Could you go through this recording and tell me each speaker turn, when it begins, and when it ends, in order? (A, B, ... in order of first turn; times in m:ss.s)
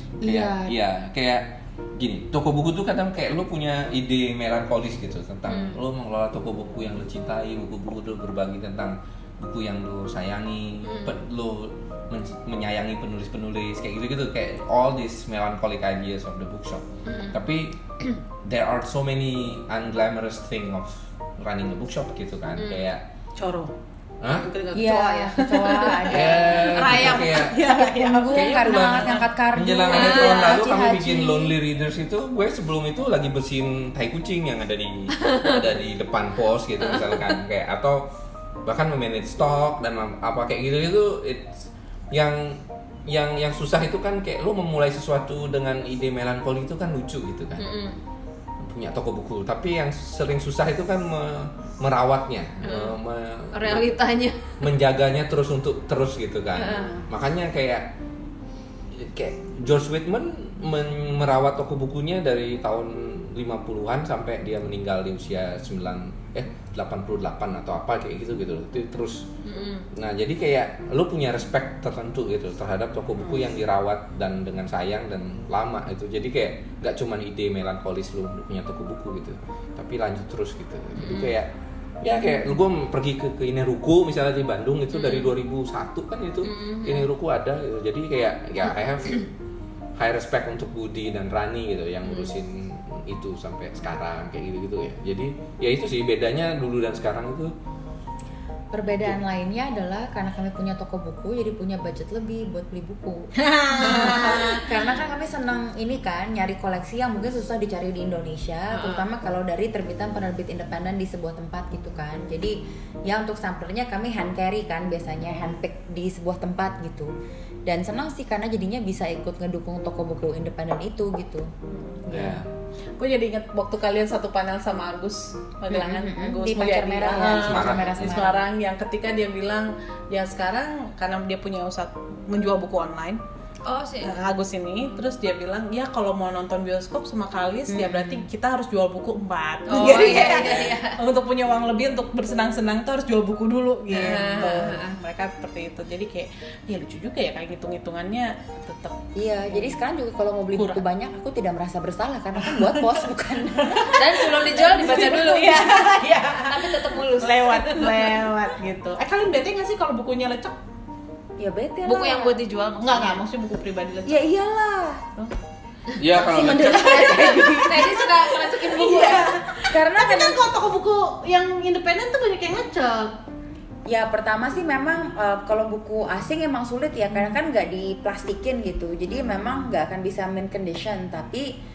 0:00.2-0:00.7 A
0:00.2-0:23.0 B
0:05.5-0:05.8 C
0:10.8-0:11.2 C
0:17.0-0:17.4 C
0:22.6-0:22.9 C
0:23.4-0:23.7 D
0:24.2-0:24.5 B
0:24.3-0:29.2 D
0:24.7-0:31.5 A
0:26.1-0:27.6 B
0:28.3-0:38.1 B
0:29.9-0:30.6 C
0:35.1-0:35.7 C
0:36.8-0:37.4 C
0:38.6-0:47.7 B
0:47.6-0:48.0 C
0:48.6-0:53.9 B
0:52.6-0:53.0 C
0:53.5-0:54.5 C
0:54.6-0:57.9 B
0:56.6-0:57.0 C
0:58.9-1:09.3 B
1:09.4-1:09.9 C
1:09.9-1:29.2 B
1:13.2-1:13.5 D
1:21.0-1:21.3 C
1:24.9-1:25.3 C
1:26.4-1:27.1 C
1:30.0-1:37.5 B
1:32.0-1:32.3 C
1:38.7-1:57.1 A
1:43.4-1:44.6 D
1:48.7-1:49.0 C
1:57.6-2:01.5 A
2:01.7-2:02.1 D
2:02.1-2:02.4 A
2:02.1-2:02.4 B
2:03.0-2:13.2 D
2:05.7-2:08.4 A
2:07.2-2:08.3 B
2:13.6-2:14.2 C
2:14.0-2:29.7 D
2:17.7-2:18.3 A
2:19.7-2:21.0 C
2:23.9-2:24.7 A
2:23.9-2:25.0 C
2:29.1-2:35.4 A
2:30.5-2:30.8 D
2:32.4-2:33.0 D
2:33.6-2:40.6 D
2:33.9-2:38.2 C
2:41.4-2:42.4 A
2:41.8-2:43.2 C
2:42.8-2:44.2 D
2:44.0-2:45.0 A
2:46.0-2:47.6 B
2:46.1-2:48.0 A
2:46.6-2:49.3 C
2:47.8-2:53.2 D
2:49.7-2:50.4 A
2:53.9-3:01.5 A
2:57.1-2:57.4 D